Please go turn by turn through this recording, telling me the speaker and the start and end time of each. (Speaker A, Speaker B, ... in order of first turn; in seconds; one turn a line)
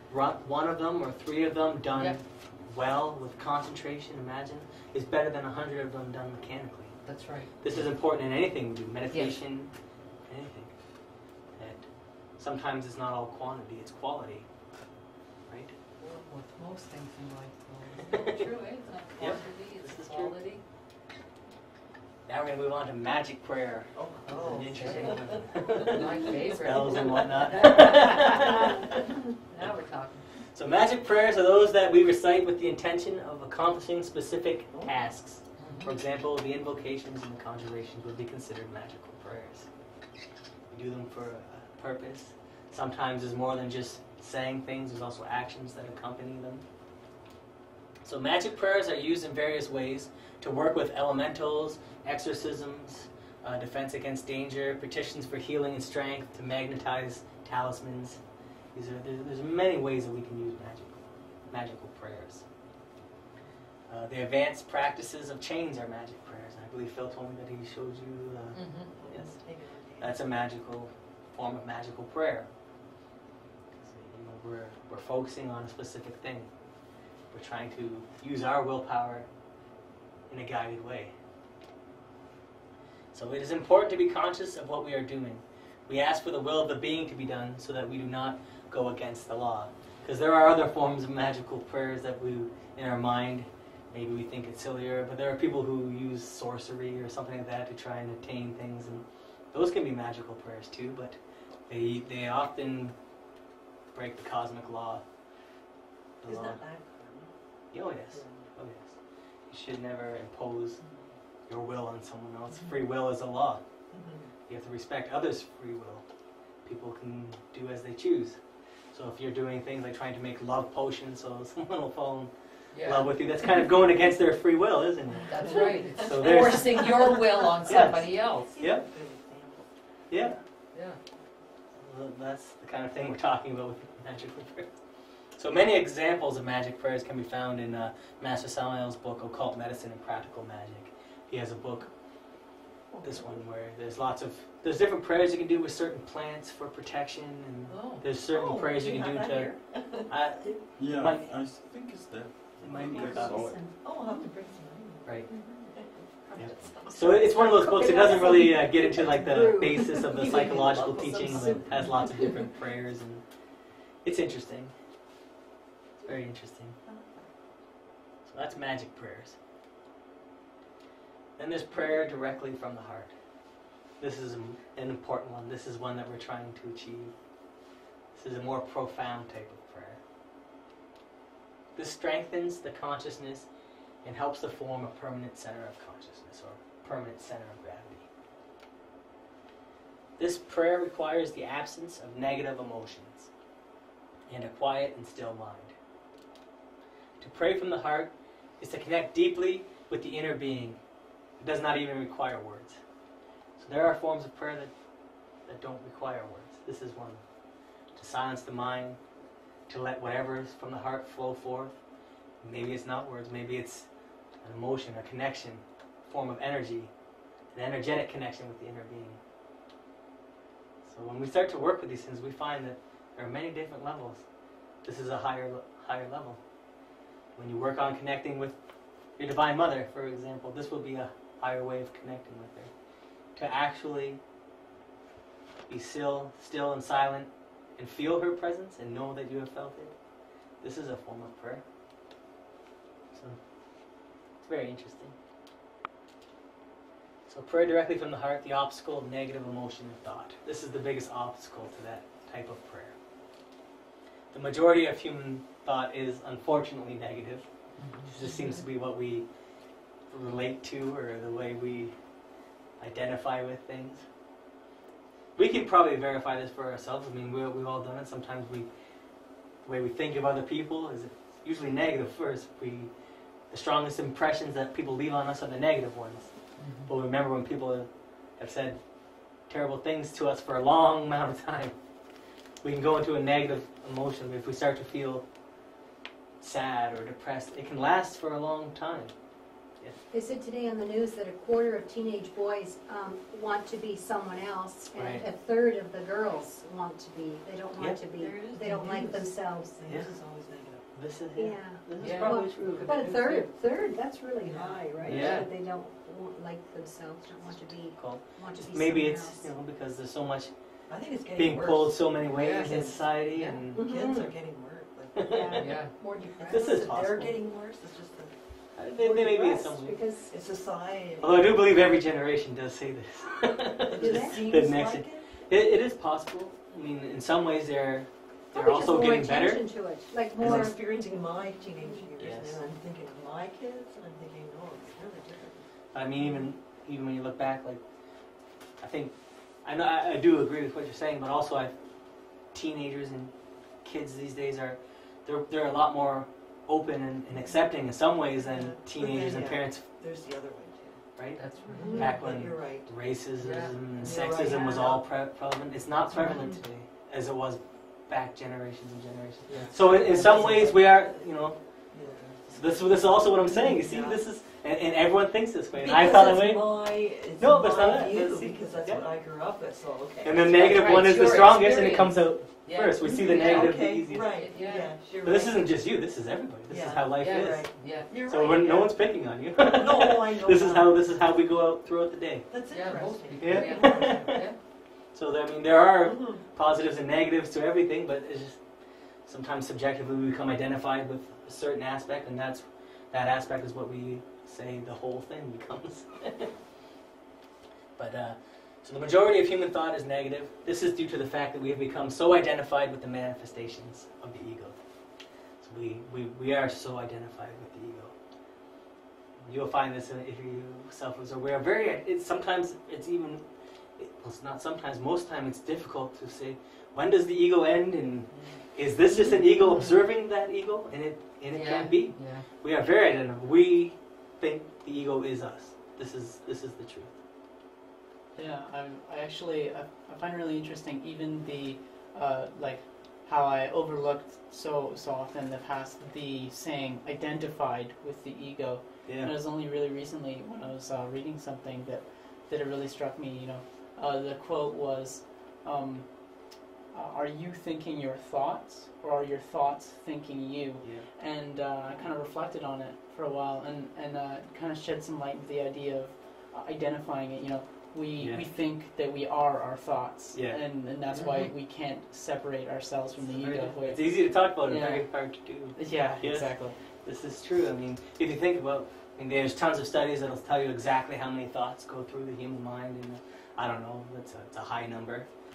Speaker A: 0.1-7.1
Speaker B: 1.9-2.2
Speaker B: 7.1-7.9
Speaker A: 7.6-9.7
Speaker B: 9.1-9.4
Speaker A: 10.3-10.8
Speaker A: 11.5-14.5
Speaker A: 15.5-15.8
Speaker B: 16.0-20.6
Speaker A: 18.0-18.4
Speaker A: 19.2-20.3
Speaker A: 22.3-29.0
Speaker C: 23.9-27.3
Speaker B: 24.4-28.6
Speaker B: 29.5-30.3
Speaker A: 30.5-39.7
Speaker C: 34.7-35.1
Speaker B: 35.6-35.9
Speaker A: 40.7-46.6
Speaker A: 48.0-58.2
Speaker A: 58.7-62.4
Speaker A: 63.9-69.4
Speaker B: 68.5-69.0
Speaker C: 69.0-70.2
Speaker A: 70.0-72.5
Speaker A: 73.8-76.5
Speaker A: 77.3-79.3
Speaker A: 80.3-81.1
Speaker A: 83.1-103.0
Speaker A: 103.9-105.0
Speaker A: 106.2-106.6
Speaker C: 106.2-107.3
Speaker A: 107.7-109.0
Speaker C: 108.1-108.5
Speaker A: 109.5-110.8
Speaker C: 110.8-111.1
Speaker A: 111.5-113.6
Speaker C: 113.9-114.3
Speaker A: 114.5-116.0
Speaker A: 116.6-118.4
Speaker A: 118.9-122.3
Speaker B: 122.7-123.1
Speaker A: 122.8-126.9
Speaker B: 125.3-128.5
Speaker C: 125.4-129.7
Speaker A: 127.7-128.1
Speaker A: 128.6-128.8
Speaker A: 130.1-130.4
Speaker B: 130.7-131.0
Speaker A: 131.8-134.7
Speaker A: 135.4-141.9
Speaker C: 142.9-143.4
Speaker A: 143.0-151.3
Speaker B: 147.7-148.1
Speaker C: 148.2-150.6
Speaker D: 150.8-153.8
Speaker A: 152.6-153.6
Speaker C: 152.6-157.4
Speaker E: 153.3-154.3
Speaker E: 155.3-155.7
Speaker E: 156.3-162.2
Speaker A: 156.3-163.2
Speaker C: 159.9-162.5
Speaker A: 164.0-164.7
Speaker A: 166.0-166.8
Speaker C: 166.8-167.2
Speaker A: 168.2-169.4
Speaker A: 171.4-173.1
Speaker A: 174.0-177.1
Speaker A: 178.1-180.0
Speaker A: 181.8-183.5
Speaker A: 184.0-188.1
Speaker A: 190.2-193.3
Speaker A: 194.3-195.8
Speaker A: 197.2-200.8
Speaker A: 201.4-202.8
Speaker A: 203.6-204.7
Speaker A: 205.5-207.2
Speaker A: 207.9-209.0
Speaker A: 209.7-211.8
Speaker A: 212.4-213.9
Speaker A: 214.4-216.9
Speaker A: 217.5-219.2
Speaker A: 220.8-224.3
Speaker A: 224.8-226.4
Speaker A: 227.3-228.6
Speaker A: 229.2-232.7
Speaker A: 233.3-234.2
Speaker A: 235.7-239.9
Speaker A: 240.6-241.6
Speaker A: 243.1-243.4
Speaker A: 244.4-245.2
Speaker A: 247.3-253.0
Speaker A: 254.3-257.5
Speaker B: 257.8-258.6
Speaker A: 258.0-259.3
Speaker A: 260.1-261.9
Speaker A: 262.8-264.1
Speaker A: 265.4-268.7
Speaker A: 269.6-272.9
Speaker A: 273.5-278.8
Speaker B: 276.6-276.9
Speaker A: 279.4-281.8
Speaker A: 282.6-285.2
Speaker A: 286.4-289.1
Speaker E: 290.1-300.0
Speaker A: 294.9-295.2
Speaker C: 298.1-300.9
Speaker A: 299.9-300.2
Speaker A: 300.9-303.4
Speaker E: 301.4-309.5
Speaker B: 302.0-303.4
Speaker C: 304.4-305.4
Speaker A: 305.1-305.5
Speaker A: 307.5-310.5
Speaker C: 310.9-318.4
Speaker A: 311.4-314.3
Speaker B: 312.4-312.7
Speaker E: 313.8-314.2
Speaker A: 315.1-315.6
Speaker E: 315.2-316.9
Speaker B: 315.5-315.9
Speaker A: 316.5-317.4
Speaker A: 318.8-320.0
Speaker E: 319.0-320.3
Speaker C: 320.3-321.9
Speaker A: 321.2-329.6
Speaker C: 323.9-325.4
Speaker E: 324.0-324.5
Speaker E: 328.5-330.8
Speaker A: 330.4-330.7
Speaker C: 330.4-335.7
Speaker E: 331.7-332.1
Speaker A: 332.2-332.6
Speaker A: 335.9-337.8
Speaker A: 338.8-349.8
Speaker C: 348.4-353.1
Speaker B: 351.4-352.1
Speaker E: 351.7-352.2
Speaker A: 351.9-361.9
Speaker B: 353.4-354.2
Speaker C: 353.9-355.1
Speaker C: 356.1-356.6
Speaker C: 359.5-361.2
Speaker C: 361.9-364.2
Speaker A: 362.5-369.1
Speaker C: 365.7-371.4
Speaker A: 370.2-374.4
Speaker B: 370.5-375.0
Speaker C: 373.0-375.7
Speaker A: 375.2-382.5
Speaker C: 376.7-379.0
Speaker B: 377.2-378.1
Speaker C: 379.6-381.3
Speaker C: 382.5-384.4
Speaker B: 382.7-384.6
Speaker A: 383.4-384.4
Speaker A: 385.1-388.7
Speaker C: 386.0-386.4
Speaker A: 389.2-396.6
Speaker A: 398.0-404.8
Speaker A: 405.6-408.1
Speaker A: 409.4-413.4
Speaker A: 414.0-427.2
Speaker C: 418.3-418.6
Speaker B: 421.5-422.5
Speaker F: 428.4-466.8
Speaker A: 439.1-439.3
Speaker A: 450.8-451.1
Speaker A: 458.2-458.5
Speaker A: 460.3-460.8
Speaker B: 461.1-461.5
Speaker A: 463.3-475.3